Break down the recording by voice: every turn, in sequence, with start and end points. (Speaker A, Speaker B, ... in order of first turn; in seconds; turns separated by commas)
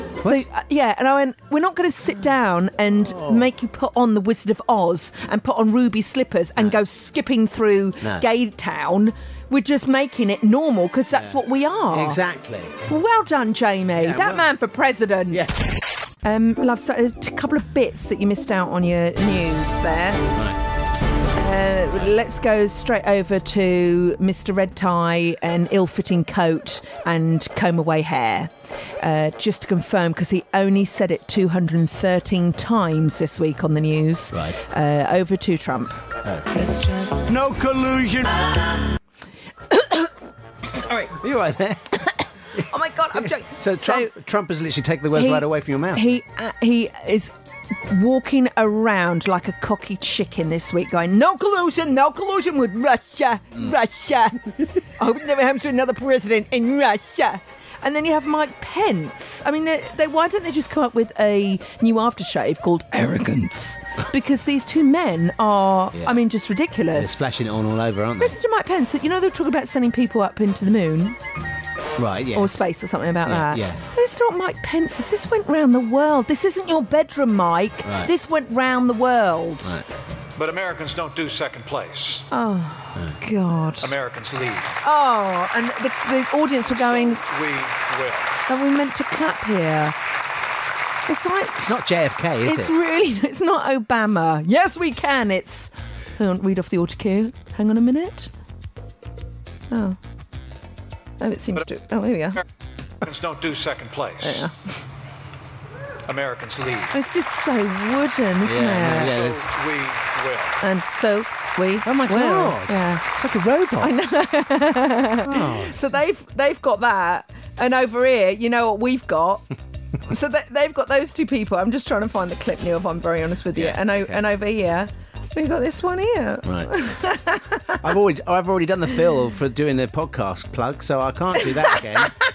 Speaker A: 0.2-12.2, Speaker B: 3.0-3.5, Speaker B: 11.9-12.8, Speaker A: 12.9-15.4, Speaker B: 14.0-14.5, Speaker B: 15.3-15.6, Speaker A: 16.2-20.3, Speaker A: 21.4-36.0, Speaker B: 34.3-34.6, Speaker B: 36.2-38.6, Speaker A: 36.5-37.2, Speaker A: 39.7-40.1, Speaker B: 41.0-42.6, Speaker A: 42.7-44.1, Speaker B: 43.2-46.2, Speaker A: 45.1-47.3, Speaker A: 47.8-67.2, Speaker B: 66.0-66.2, Speaker B: 66.9-68.4, Speaker A: 68.2-71.2, Speaker B: 72.0-72.6, Speaker A: 72.3-79.7, Speaker B: 73.2-73.8, Speaker B: 77.8-78.1, Speaker C: 80.4-82.3, Speaker A: 82.3-83.9, Speaker C: 83.8-84.8, Speaker A: 84.8-87.2, Speaker C: 86.7-88.4, Speaker A: 88.5-90.0, Speaker A: 91.1-91.6, Speaker B: 91.6-92.7, Speaker A: 92.4-98.3, Speaker A: 99.7-100.0, Speaker A: 101.2-102.4, Speaker C: 103.0-104.5, Speaker A: 104.2-104.5, Speaker C: 106.0-106.9, Speaker A: 106.9-109.2, Speaker B: 108.4-109.5, Speaker C: 108.8-110.6, Speaker A: 110.6-113.0, Speaker B: 111.8-114.0, Speaker A: 113.8-119.5, Speaker B: 115.2-115.8, Speaker A: 120.1-127.8, Speaker B: 123.5-124.2, Speaker B: 126.5-126.7, Speaker B: 127.8-132.1, Speaker A: 131.4-132.1